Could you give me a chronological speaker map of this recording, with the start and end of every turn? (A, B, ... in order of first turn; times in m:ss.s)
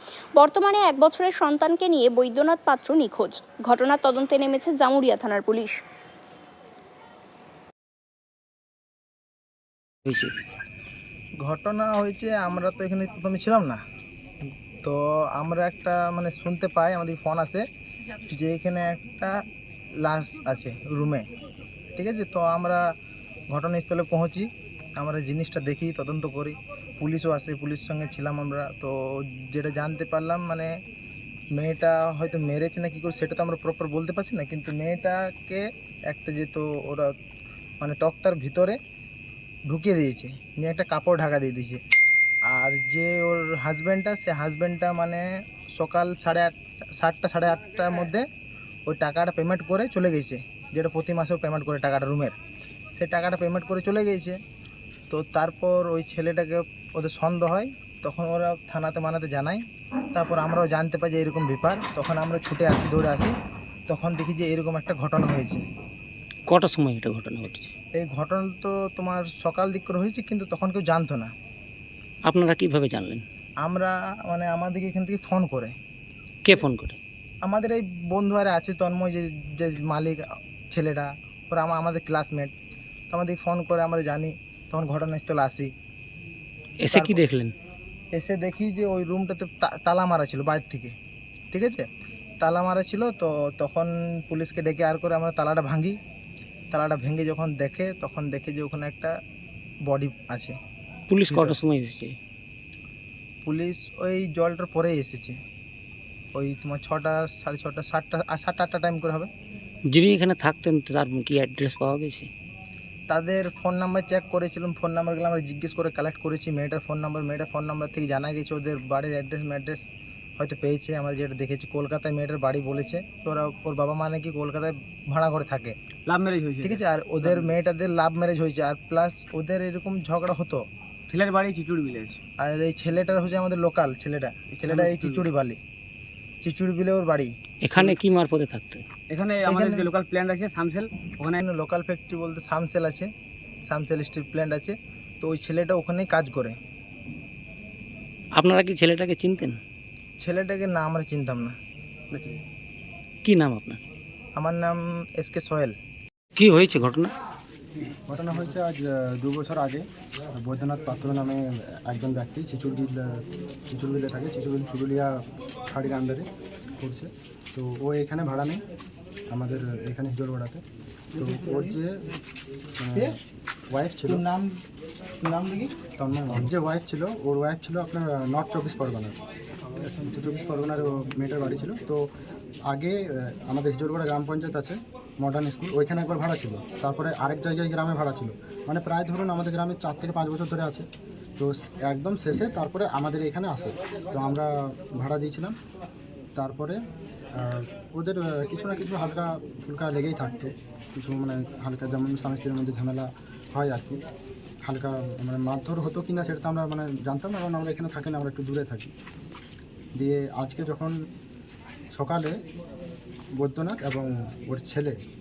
0:00.4-0:05.8 A
0:10.1-0:10.3 B
0:11.4-0:13.8 C
0:14.8-0:17.6 C
0:18.3-0:19.4 C
0:20.0-0:21.3 C
0:22.0-0:22.8 C
0:23.5-0:30.7 C
0:31.5-0:37.1 C
0:37.8-0:38.8 C
0:39.7-0:41.8 C
0:42.5-0:48.2 C
0:48.9-0:52.4 C
0:53.0-0:54.4 C
0:55.1-1:03.3 C
1:03.9-1:05.6 C
1:06.5-1:07.7 B
1:07.9-1:11.3 C
1:12.2-1:13.2 B
1:13.6-1:15.7 C
1:16.4-1:17.0 B
1:17.4-1:20.2 C
1:20.7-1:22.5 C
1:23.1-1:25.7 C
1:26.8-1:27.5 B
1:26.9-1:27.2 C
1:28.1-1:30.9 C
1:31.5-1:31.9 C
1:32.4-1:36.0 C
1:36.7-1:39.1 C
1:39.9-1:40.6 C
1:41.1-1:42.2 B
1:41.3-1:41.6 C
1:43.4-1:45.4 C
1:46.4-1:49.3 C
1:49.9-1:52.3 B
1:53.1-1:59.8 C
2:00.4-2:05.8 C
2:06.1-2:07.5 D
2:06.6-2:10.6 C
2:11.1-2:12.2 D
2:12.4-2:15.6 C
2:14.6-2:15.3 D
2:16.4-2:17.3 C
2:17.6-2:18.8 B
2:19.1-2:21.4 D
2:19.5-2:19.9 C
2:21.4-2:23.1 C
2:23.7-2:26.6 C
2:28.3-2:29.6 B
2:30.2-2:31.5 C
2:32.1-2:32.4 C
2:33.2-2:33.8 B
2:34.4-2:35.7 C
2:36.4-2:37.1 B
2:38.1-2:46.3 E
2:46.8-2:48.6 E
2:49.3-2:50.6 E
2:51.2-2:52.0 E
2:51.2-2:51.8 C
2:52.8-2:53.2 E
2:53.7-2:54.2 E
2:54.0-2:54.6 C
2:55.2-2:55.8 C
2:56.0-2:59.2 E
2:59.8-3:02.0 E
3:02.7-3:10.9 E
3:11.4-3:15.5 E
3:16.4-3:16.8 E
3:17.4-3:24.0 E
3:24.6-3:28.9 E
3:30.0-3:31.0 E
3:31.9-3:32.4 E
3:33.4-3:35.0 E